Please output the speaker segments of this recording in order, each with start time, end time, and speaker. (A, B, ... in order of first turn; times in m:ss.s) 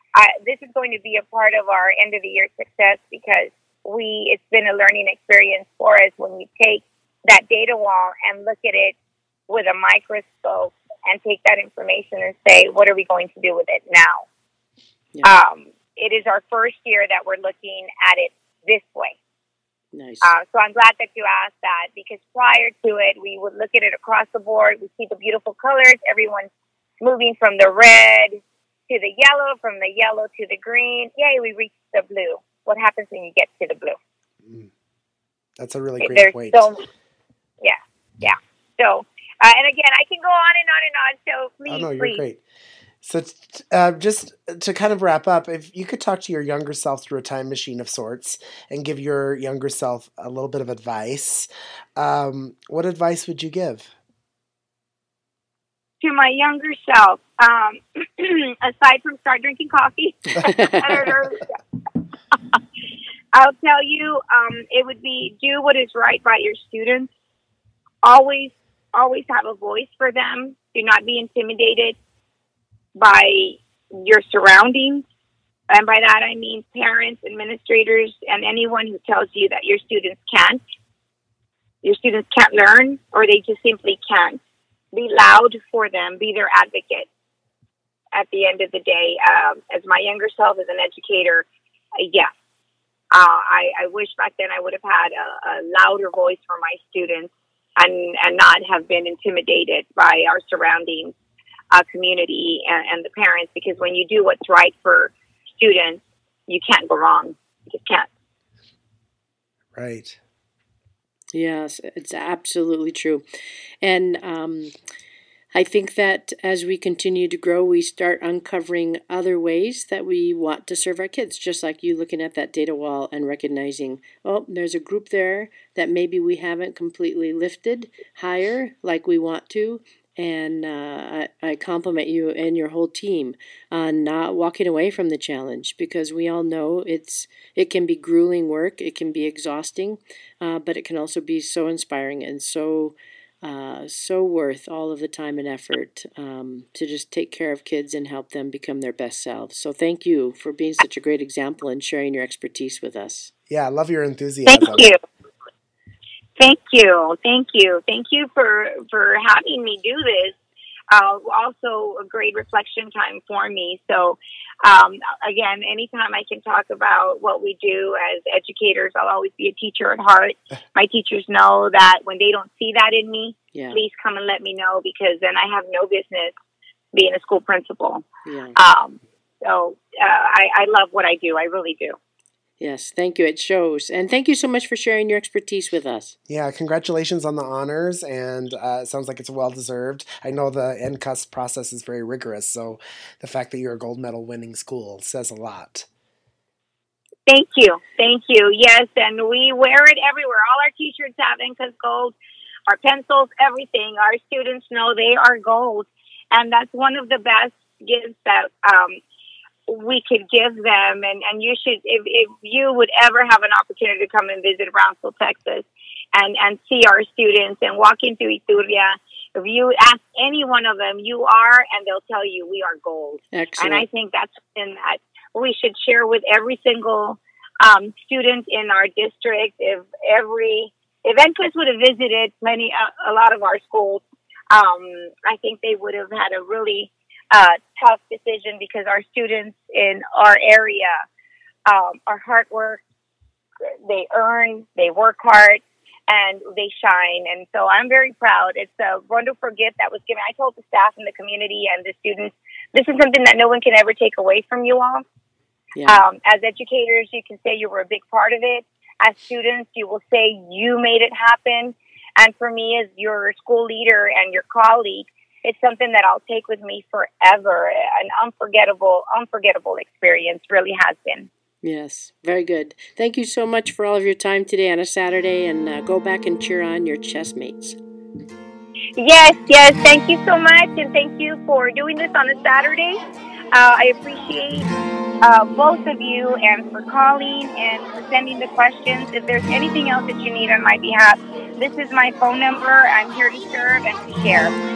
0:00.2-0:09.0 A
0:09.5-0:14.3 A
0:15.2-0:19.2 A
0:19.9-0:20.4 B
0:20.2-0:26.5 A
0:27.0-0:34.0 A
0:34.4-0:34.7 C
0:35.6-0:36.7 C
0:36.0-0:36.8 A
0:37.6-0:42.2 A
0:41.7-0:42.4 C
0:43.0-0:53.9 C
0:56.0-1:01.5 A
1:00.4-1:00.8 B
1:03.3-1:07.1 A
1:08.0-1:12.0 A
1:13.0-1:15.0 A
1:15.7-1:20.6 A
1:21.8-1:24.4 A
1:24.9-1:27.1 A
1:28.1-1:32.3 A
1:33.1-1:41.2 A
1:41.7-1:48.1 A
1:49.8-1:50.2 C
1:51.3-1:53.2 B
1:53.8-1:54.8 B
1:55.5-2:33.3 B
2:33.5-2:34.9 C
2:34.5-2:35.0 A
2:36.4-2:40.4 A
2:40.9-2:56.4 A
2:53.5-2:53.8 B
2:56.9-3:02.0 A
2:58.3-2:58.6 B
3:02.6-3:06.2 B
3:06.3-3:15.9 C
3:17.3-3:22.2 A
3:22.7-3:29.0 A
3:29.7-4:01.0 A
3:43.3-3:43.8 B
4:01.7-4:02.8 A
4:03.6-4:15.0 A
4:15.8-4:16.0 B
4:15.9-4:31.3 A
4:31.6-4:37.8 B
4:39.0-4:43.0 A
4:43.5-4:44.7 A
4:45.2-4:54.5 A